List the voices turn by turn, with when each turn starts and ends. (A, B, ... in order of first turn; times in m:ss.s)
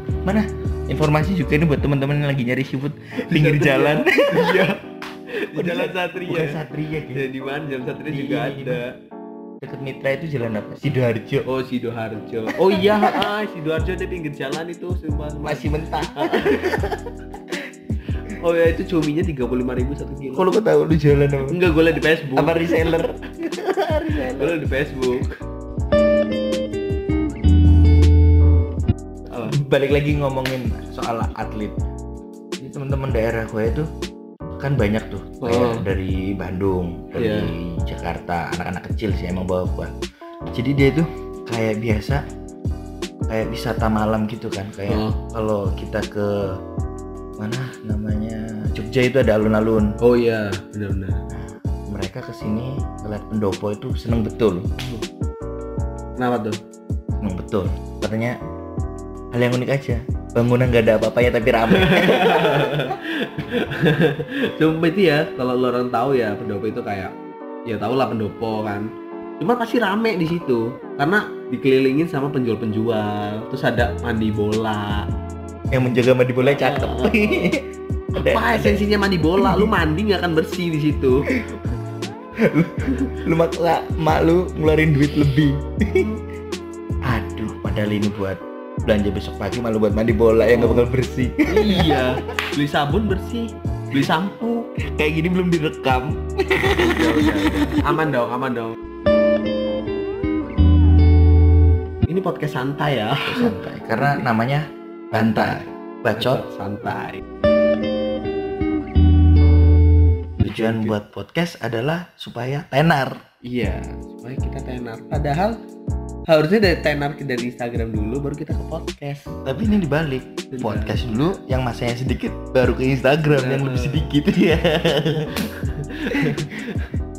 0:00.2-0:04.8 A
0:03.2-0:04.8 B
0:05.3-0:09.0 B
0:05.6-0:07.3 A
0:08.1-0:08.8 A
0:09.6-0:11.5 A
0:11.4-0:16.8 B
0:12.6-0:13.3 A
0:15.4-0:17.7 A
0:18.3-0:20.4 B
0:20.3-0:21.6 A
0:21.4-0:23.0 B
0:22.4-0:24.6 A
0:24.3-0:25.4 B
0:29.3-0:29.6 B
0:29.4-0:31.8 A
0:32.6-0:33.9 A
0:34.6-0:39.9 A
0:35.4-0:35.9 B
0:37.2-0:37.5 B
0:40.5-0:42.2 A
0:43.3-0:46.6 A
0:44.9-0:45.2 B
0:47.4-0:50.0 A
0:50.0-0:51.2 B
0:51.3-0:54.7 A
0:54.8-0:55.0 B
0:56.2-0:56.6 B
0:57.2-0:58.4 A
0:59.3-1:02.8 A
1:01.7-1:07.1 B
1:07.7-1:15.1 B
1:15.7-1:18.9 A
1:16.4-1:17.6 B
1:18.1-1:21.3 B
1:19.4-1:19.7 A
1:22.4-1:26.1 A
1:25.9-1:26.2 B
1:27.0-1:32.2 A
1:30.4-1:30.9 B
1:31.5-1:34.7 B
1:34.8-1:38.0 A
1:36.8-1:38.8 B
1:42.1-1:44.2 B
1:43.2-1:46.4 A
1:45.1-1:47.2 B
1:50.4-1:51.0 B
1:50.4-1:53.2 A
1:53.4-1:55.6 B
1:56.3-1:59.4 B
1:59.4-2:05.5 A
2:00.5-2:01.0 B
2:03.3-2:04.1 B
2:05.4-2:06.9 B
2:06.1-2:06.4 A